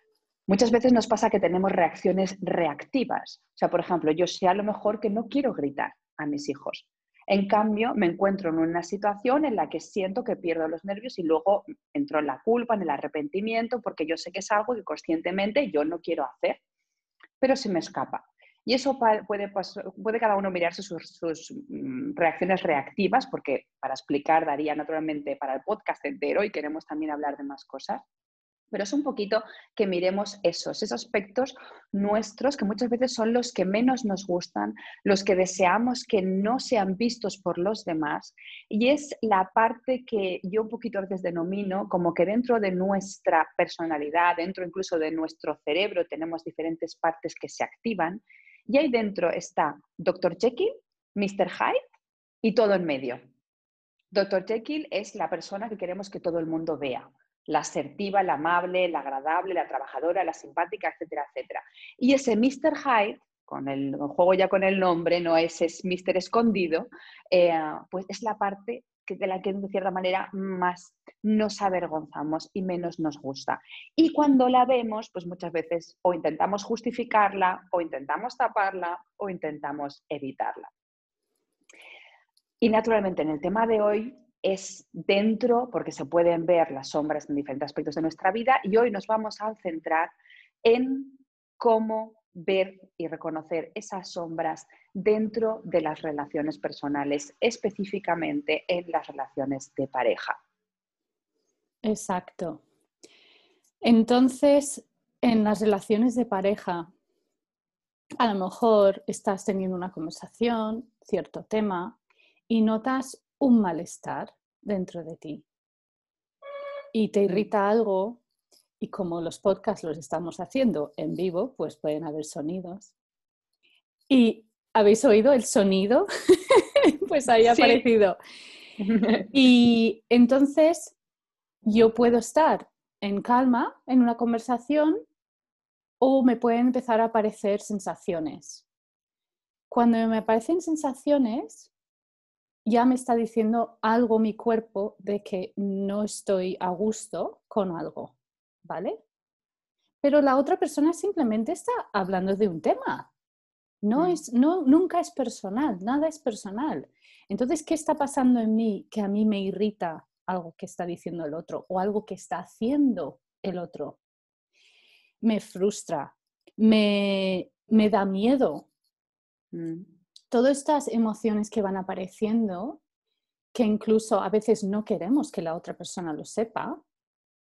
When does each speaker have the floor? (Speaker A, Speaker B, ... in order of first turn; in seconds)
Speaker A: 0.5-16.6, 17.4-28.0, 28.7-51.8, 52.4-53.2, 54.1-80.7, 82.6-100.4, 127.5-127.8, 128.8-129.3, 154.0-154.2, 169.5-169.9
Speaker B: 101.8-102.6, 103.8-106.9, 108.2-112.0, 112.5-115.5, 116.9-118.2, 118.8-122.9, 124.1-128.2, 129.3-131.0, 131.7-135.0, 136.0-138.7, 139.7-141.7, 142.7-149.0, 150.0-153.1, 153.8-164.0, 165.2-168.7, 170.3-172.8, 173.5-176.8